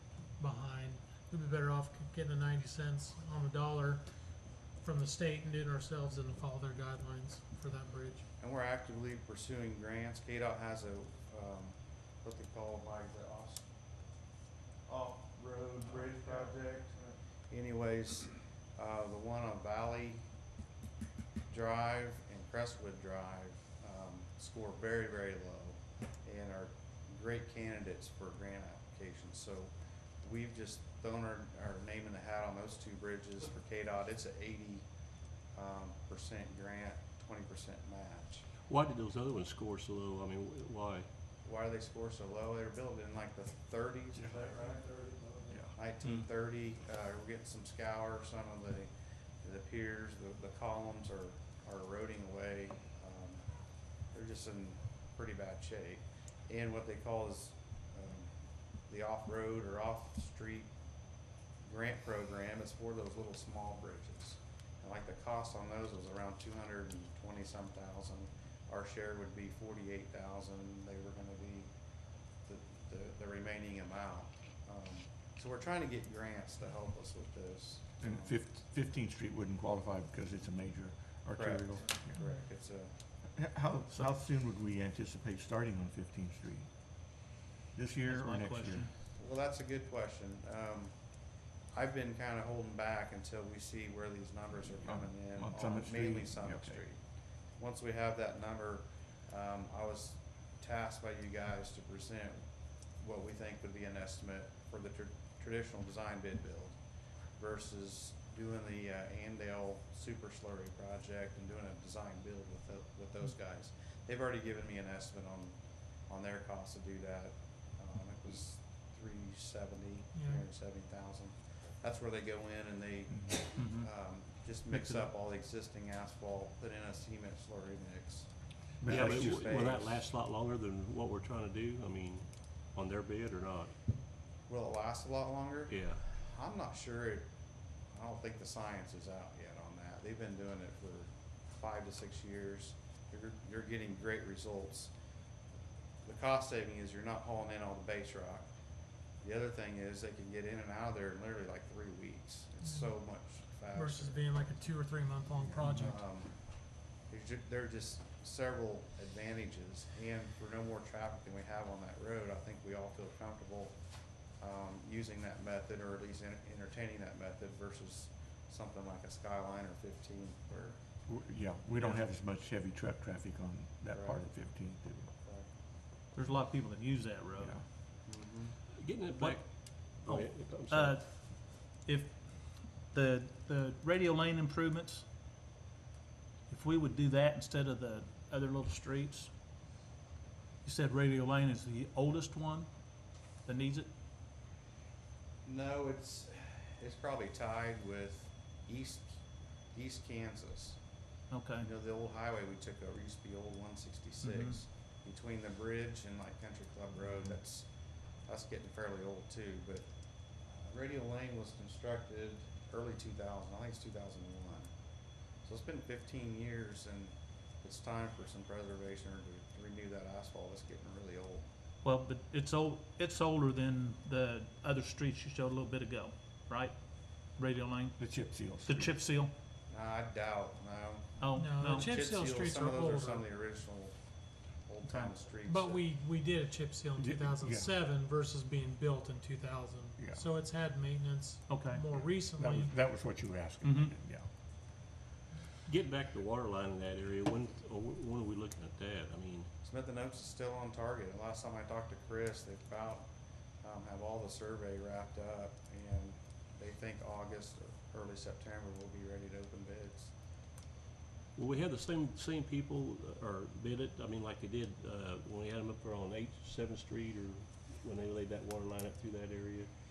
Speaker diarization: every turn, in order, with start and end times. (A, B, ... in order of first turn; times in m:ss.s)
0:00.4-0:04.1 A
0:04.8-0:08.3 A
0:08.4-0:13.7 B
0:14.9-0:20.2 B
0:21.5-0:34.8 B
0:35.6-0:38.4 B
0:38.7-0:41.1 C
0:41.4-0:44.9 B
0:45.7-0:48.9 B
0:49.4-0:53.4 B
0:54.1-0:58.3 B
0:58.9-1:00.7 B
1:01.7-1:11.7 B
1:12.5-1:18.4 B
1:18.0-1:22.2 D
1:21.4-1:22.9 B
1:22.2-1:22.5 A
1:23.4-1:26.7 D
1:27.8-1:28.9 D
1:28.0-1:28.9 E
1:29.2-1:30.9 B
1:31.7-1:37.0 B
1:34.8-1:36.8 D
1:37.6-1:42.4 B
1:43.0-1:46.8 B
1:47.4-1:55.6 B
1:56.1-2:08.3 B
2:00.1-2:00.5 A
2:03.6-2:03.9 E
2:04.7-2:05.1 E
2:08.8-2:09.6 D
2:08.8-2:10.0 B
2:08.9-2:13.7 C
2:14.5-2:17.3 B
2:15.7-2:16.0 C
2:17.9-2:24.9 B
2:26.0-2:28.5 B
2:29.2-2:34.6 B
2:32.6-2:33.1 A
2:33.7-2:36.1 A
2:35.4-2:35.8 D
2:35.7-2:36.4 B
2:37.1-2:43.8 B
2:44.4-2:50.8 B
2:51.1-2:55.1 D
2:53.9-2:54.3 B
2:55.2-2:55.5 B
2:56.1-2:57.6 E
2:57.4-2:57.6 D
2:58.1-2:58.6 B
2:58.7-3:01.0 C
2:59.1-3:05.1 E
3:06.5-3:09.3 E
3:10.6-3:13.9 E
3:15.4-3:19.2 B
3:19.7-3:20.8 B
3:21.3-3:21.7 E
3:21.6-3:27.7 B
3:24.2-3:24.6 E
3:28.3-3:29.9 B
3:30.5-3:34.7 B
3:35.4-3:41.5 B
3:41.8-3:48.0 E
3:48.0-3:49.0 D
3:48.7-3:49.3 E
3:49.7-3:54.0 B
3:51.2-3:51.9 E
3:51.4-3:53.3 A
3:54.7-3:55.8 B
3:54.8-3:55.2 E
3:55.4-4:02.8 A
3:57.0-3:57.7 D
4:00.0-4:00.2 D
4:01.5-4:01.8 E
4:01.9-4:04.3 D
4:03.6-4:03.9 E
4:05.7-4:09.5 C
4:09.6-4:13.1 B
4:13.6-4:20.1 B
4:21.4-4:29.7 C